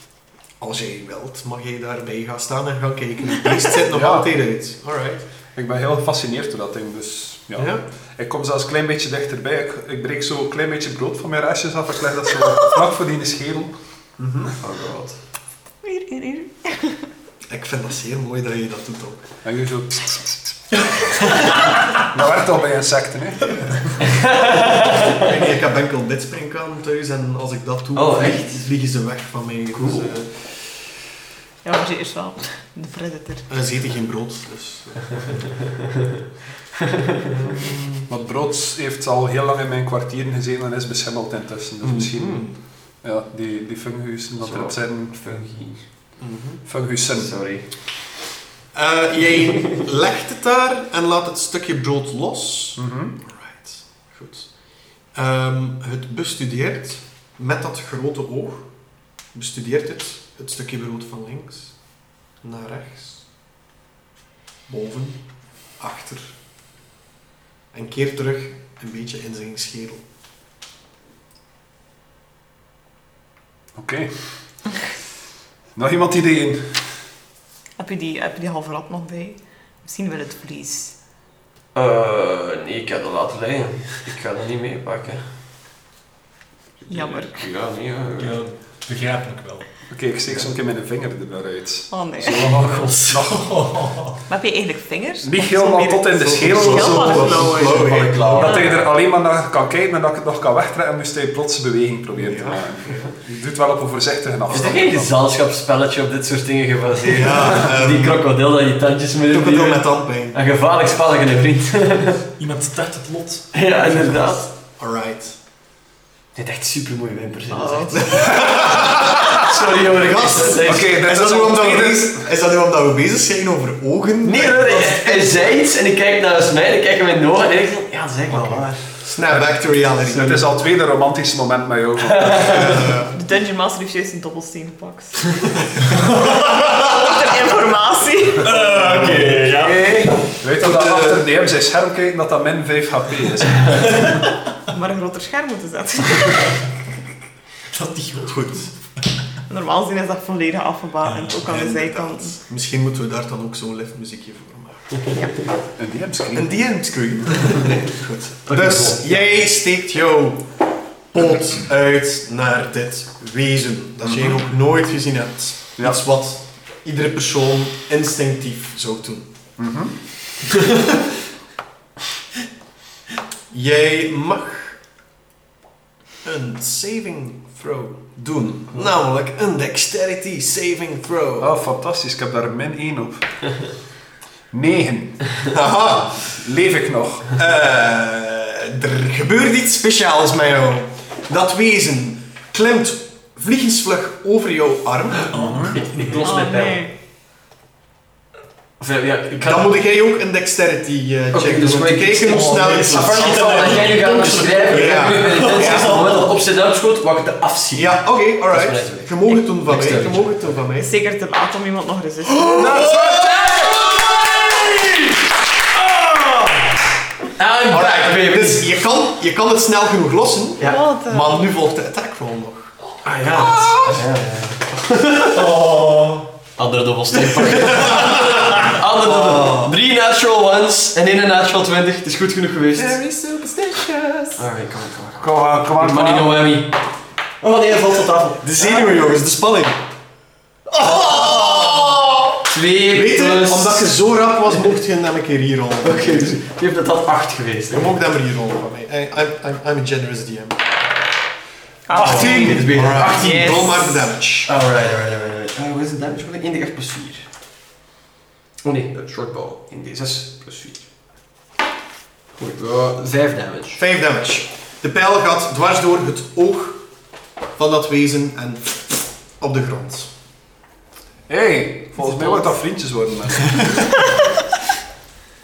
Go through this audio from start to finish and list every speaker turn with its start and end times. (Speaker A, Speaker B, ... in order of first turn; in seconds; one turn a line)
Speaker A: 0.6-5.2
Speaker B: 3.9-4.3
Speaker B: 5.5-14.5
Speaker A: 7.5-7.8
Speaker C: 14.6-15.2
Speaker D: 15.8-17.1
Speaker A: 17.5-19.2
Speaker B: 19.4-20.8
Speaker B: 21.5-24.1
Speaker C: 24.1-25.2
Speaker A: 25.1-30.5
Speaker C: 27.9-28.7
Speaker C: 29.7-30.2
Speaker D: 31.6-33.5
Speaker A: 33.5-35.5
Speaker A: 37.3-38.1
Speaker B: 38.1-45.7
Speaker A: 41.8-42.5
Speaker C: 44.4-45.9
Speaker A: 46.2-46.6
Speaker B: 46.6-47.5
Speaker C: 47.1-47.7
Speaker A: 48.7-58.7
Speaker B: 52.8-53.1
Speaker A: 59.3-61.8
Speaker A: 62.4-63.3
Speaker A: 64.7-65.2
Speaker A: 65.8-66.3
Speaker A: 67.7-70.0
Speaker B: 73.7-74.5
Speaker B: 75.7-76.8
Speaker D: 77.8-81.0
Speaker C: 81.7-85.2
Speaker C: 86.8-88.5
Speaker D: 86.9-87.5
Speaker E: 88.2-89.7
Speaker B: 89.9-93.7
Speaker D: 91.9-92.5
Speaker E: 92.3-94.2
Speaker D: 94.3-98.7
Speaker B: 95.2-97.6
Speaker A: 96.1-98.5
Speaker C: 97.0-98.9
Speaker B: 98.2-105.2
Speaker A: 102.1-103.1
Speaker C: 104.5-112.3
Speaker A: 107.0-108.2
Speaker A: 109.3-110.4
Speaker E: 112.4-114.2
Speaker C: 113.5-114.5
Speaker A: 114.8-115.3
Speaker C: 116.3-120.9
Speaker D: 117.5-118.4
Speaker A: 117.9-125.5
Speaker B: 118.8-119.3
Speaker B: 120.6-122.2
Speaker C: 124.2-129.0
Speaker A: 128.9-130.4
Speaker B: 129.3-132.9
Speaker C: 132.0-132.8
Speaker A: 132.5-133.1
Speaker D: 133.1-135.2
Speaker D: 136.3-138.5
Speaker E: 138.4-140.1
Speaker C: 138.6-140.1
Speaker B: 138.7-144.2
Speaker D: 144.7-146.7
Speaker E: 147.7-148.5
Speaker A: 148.2-148.7
Speaker D: 149.5-152.4
Speaker E: 151.0-151.4
Speaker A: 151.4-155.0
Speaker B: 155.5-157.4
Speaker A: 156.3-169.3
Speaker C: 158.4-159.3
Speaker B: 164.0-164.4
Speaker B: 169.6-169.9
Speaker A: 173.5-174.8
Speaker A: 176.2-181.5
Speaker B: 181.4-183.6
Speaker B: 184.5-185.5
Speaker A: 185.5-186.3
Speaker B: 186.1-187.4
Speaker A: 187.3-195.8
Speaker E: 195.3-196.4
Speaker B: 195.3-195.8
Speaker C: 195.7-196.8
Speaker D: 196.2-196.9
Speaker C: 198.8-199.7
Speaker A: 199.4-203.6
Speaker C: 201.3-210.6
Speaker E: 202.2-206.2
Speaker B: 203.0-204.2
Speaker A: 204.7-206.0
Speaker A: 207.7-210.9
Speaker D: 210.8-212.8
Speaker A: 212.3-214.6
Speaker B: 212.5-213.8
Speaker C: 213.2-214.7
Speaker C: 217.4-218.7
Speaker A: 217.7-222.7
Speaker D: 220.6-221.5
Speaker C: 223.0-225.5
Speaker A: 223.4-224.0
Speaker E: 225.3-226.3
Speaker C: 226.6-233.0
Speaker A: 227.2-229.8
Speaker A: 232.7-234.4
Speaker C: 234.4-236.9
Speaker B: 235.2-236.4
Speaker C: 237.4-239.0
Speaker A: 238.4-239.8
Speaker C: 240.7-244.0
Speaker A: 240.8-242.2
Speaker A: 242.9-246.3
Speaker C: 245.8-248.0
Speaker A: 247.7-250.6
Speaker D: 251.9-254.1
Speaker C: 251.9-253.8
Speaker A: 251.9-254.5
Speaker C: 254.4-257.3
Speaker C: 258.6-260.9
Speaker C: 262.4-263.8
Speaker A: 263.8-266.8
Speaker A: 267.5-270.1
Speaker B: 271.3-274.1